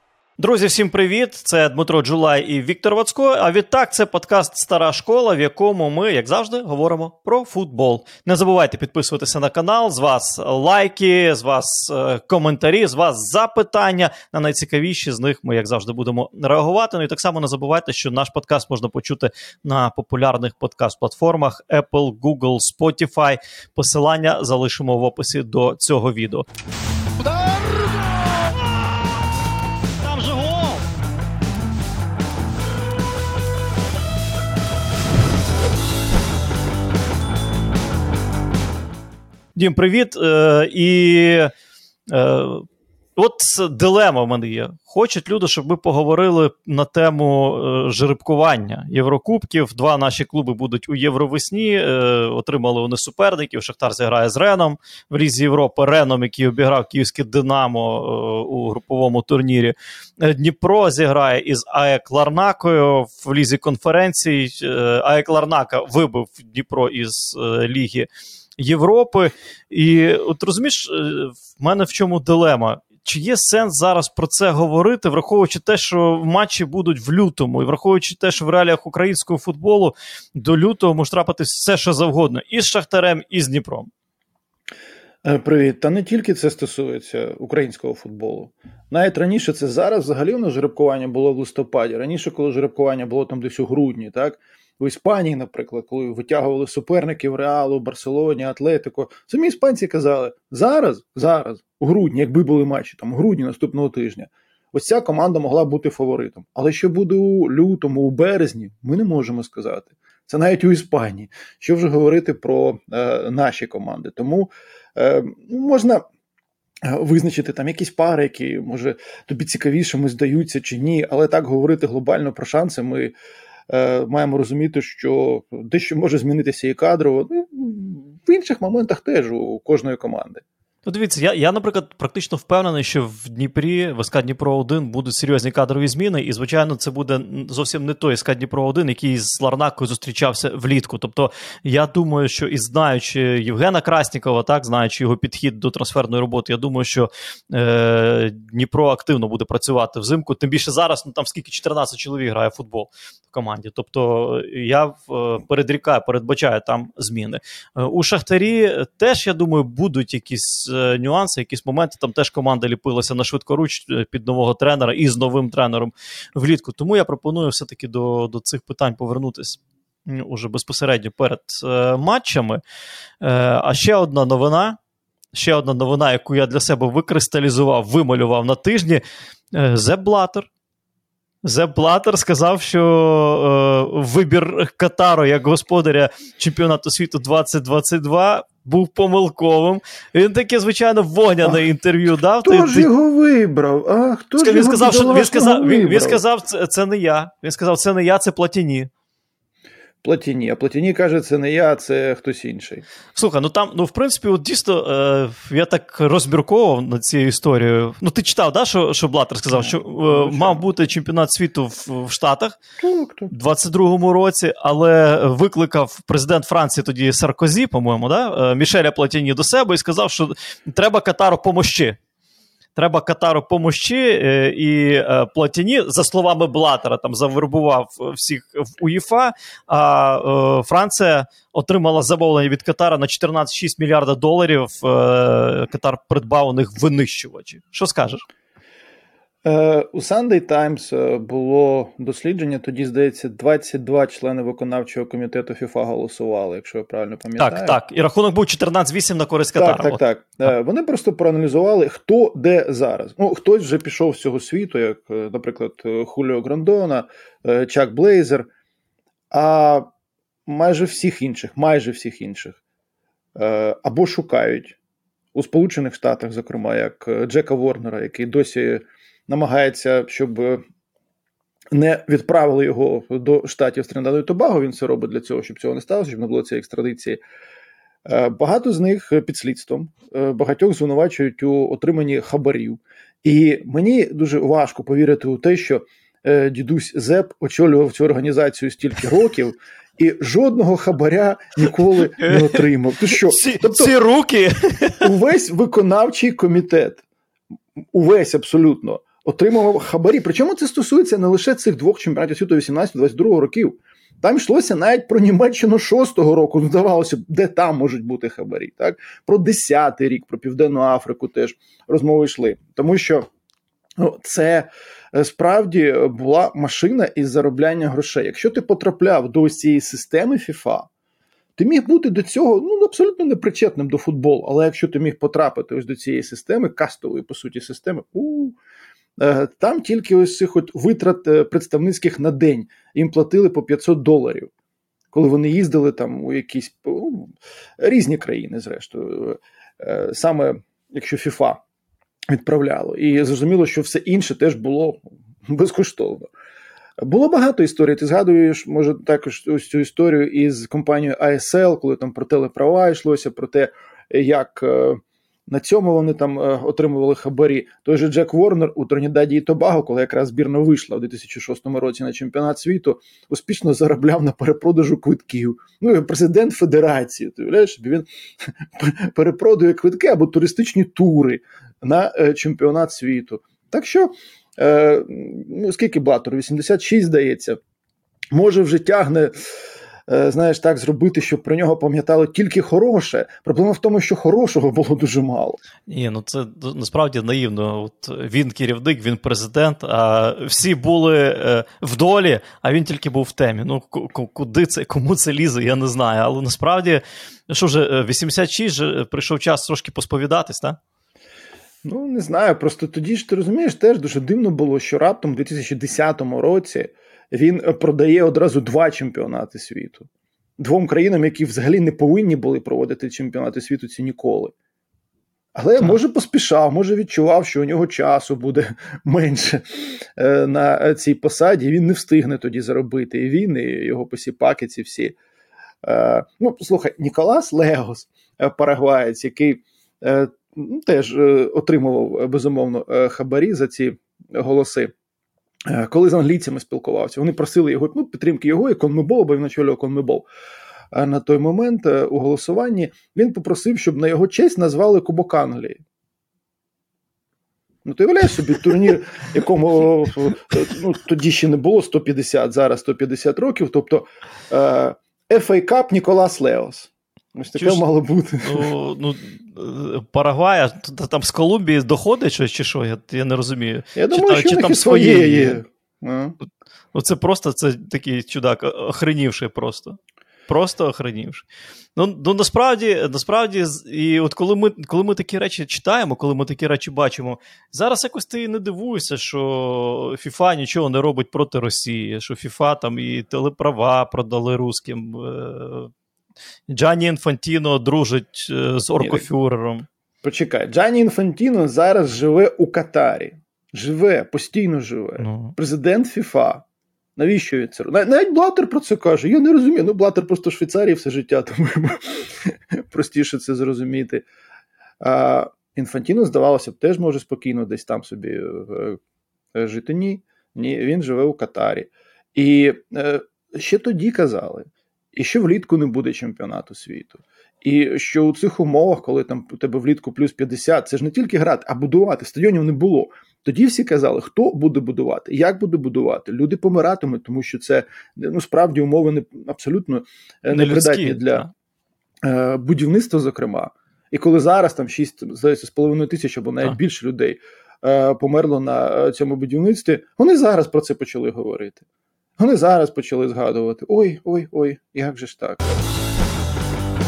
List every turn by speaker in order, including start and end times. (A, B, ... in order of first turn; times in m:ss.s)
0:00.4-0:26.4 A
0:27.2-0:28.6 A
0:30.0-0:30.8 A
0:39.6-0:41.5 A
0:42.1-1:23.9 A
1:25.2-1:56.0 B
1:56.8-2:03.1 B
2:03.7-2:10.4 B
2:10.8-2:52.6 A
2:53.2-2:54.8 A
2:55.3-2:59.0 A
2:59.5-3:00.5 A
3:01.4-3:12.9 A
3:12.4-3:16.2 B
3:14.4-3:18.9 A
3:20.0-3:22.8 B
3:23.1-3:32.6 A
3:29.5-3:30.7 B
3:32.8-3:33.3 B
3:33.3-3:42.0 A
3:42.7-3:58.2 A
3:59.4-4:07.8 B
4:07.4-4:10.5 A
4:09.6-4:18.5 B
4:19.3-4:19.9 B
4:20.5-4:22.6 B
4:23.4-4:24.8 B
4:25.3-4:30.6 B
4:31.7-4:37.2 B
4:38.0-4:53.9 B
4:52.2-4:55.1 A
4:55.0-4:57.0 B
4:57.9-5:13.3 B
5:14.0-5:20.9 B
5:21.6-5:28.6 B
5:29.2-5:34.5 B
5:35.1-5:41.6 B
5:42.3-5:46.3 B
5:47.0-6:17.6 B
6:18.3-6:19.4 B
6:20.1-6:25.6 B
6:25.9-6:40.8 A
6:41.8-6:54.5 B
6:55.5-7:05.2 B
7:05.8-7:14.9 B
7:15.7-7:20.2 B
7:20.9-7:25.8 B
7:27.8-7:38.7 B
7:37.5-7:37.8 A
7:38.4-7:45.6 A
7:43.9-7:46.4 B
7:46.9-7:50.0 A
7:50.5-7:51.4 A
7:52.0-8:05.9 A
8:06.7-8:09.9 A
8:09.0-8:09.2 B
8:10.2-8:16.6 B
8:15.2-8:15.6 A
8:17.2-8:24.2 B
8:25.0-8:29.0 B
8:29.5-8:51.5 B
8:50.5-8:51.5 A
8:52.2-9:01.8 B
9:02.4-9:05.6 B